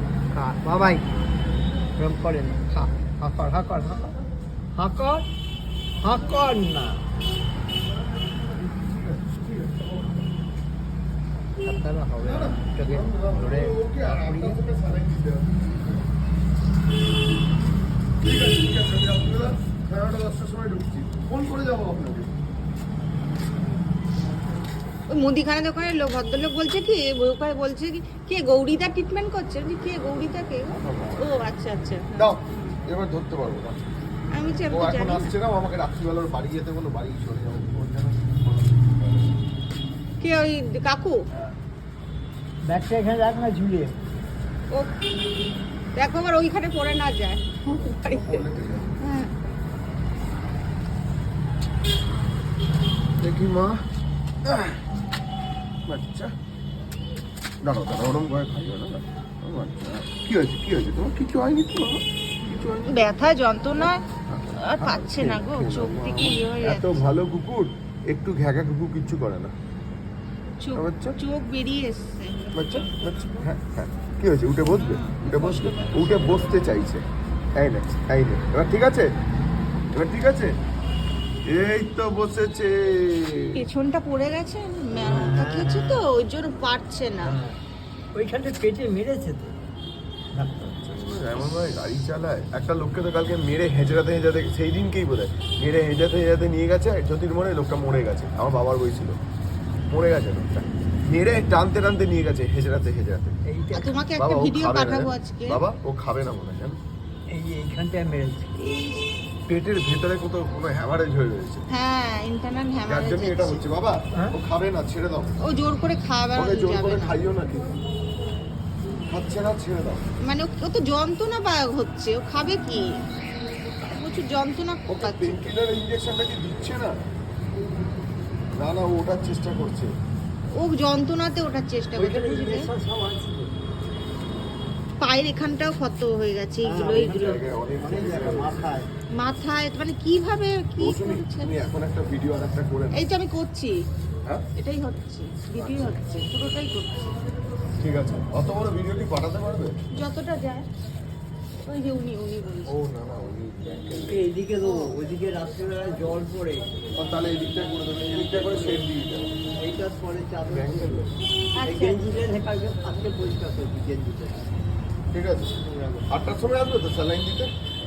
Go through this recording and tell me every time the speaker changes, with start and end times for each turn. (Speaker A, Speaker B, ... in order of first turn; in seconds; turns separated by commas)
Speaker A: 0.3-1.1, Speaker A: 2.0-4.1, Speaker A: 4.8-5.2, Speaker A: 6.0-7.0, Speaker B: 8.7-10.0, Speaker A: 11.6-14.6, Speaker B: 12.2-16.0, Speaker B: 18.2-22.3, Speaker C: 25.1-32.3, Speaker B: 30.7-31.4, Speaker B: 32.2-33.8, Speaker C: 34.3-35.3, Speaker B: 34.7-39.4, Speaker C: 40.2-41.2, Speaker A: 42.7-43.9, Speaker C: 44.7-45.0, Speaker C: 46.0-48.5, Speaker B: 47.7-49.0, Speaker C: 49.0-49.3, Speaker B: 53.2-53.8, Speaker B: 54.5-54.8, Speaker B: 55.9-56.3, Speaker B: 57.6-63.1, Speaker C: 62.9-64.0, Speaker B: 63.8-69.5, Speaker C: 64.7-67.0, Speaker C: 70.6-72.5, Speaker B: 70.8-71.2, Speaker B: 72.5-77.0, Speaker C: 74.7-76.5, Speaker B: 77.6-79.1, Speaker B: 79.9-80.5, Speaker B: 81.5-83.6, Speaker C: 83.6-87.3, Speaker A: 85.0-86.0, Speaker A: 87.2-87.6, Speaker A: 88.2-89.5, Speaker B: 90.6-99.2, Speaker B: 99.9-103.3, Speaker A: 103.5-104.0, Speaker C: 103.8-105.6, Speaker B: 104.2-106.8, Speaker A: 107.3-108.5, Speaker C: 108.6-109.0, Speaker B: 109.5-111.7, Speaker C: 111.7-113.6, Speaker B: 112.9-115.3, Speaker C: 115.4-117.2, Speaker B: 116.4-117.8, Speaker B: 119.1-120.0, Speaker C: 120.2-122.9, Speaker C: 123.9-125.5, Speaker B: 124.9-127.0, Speaker B: 128.6-129.9, Speaker C: 130.6-132.7, Speaker A: 131.9-133.5, Speaker C: 135.0-137.3, Speaker A: 136.6-138.9, Speaker B: 137.0-138.7, Speaker C: 139.2-141.5, Speaker B: 140.8-143.1, Speaker C: 143.0-143.7, Speaker C: 144.6-147.2, Speaker B: 145.6-146.0, Speaker B: 147.8-149.7, Speaker C: 150.0-150.7, Speaker C: 151.7-152.7, Speaker B: 152.7-154.3, Speaker A: 154.1-156.7, Speaker B: 157.0-159.3, Speaker A: 158.1-158.8, Speaker A: 159.6-161.1, Speaker B: 160.5-161.1, Speaker C: 161.6-162.0, Speaker A: 161.7-164.5, Speaker B: 165.1-167.5, Speaker A: 165.7-166.1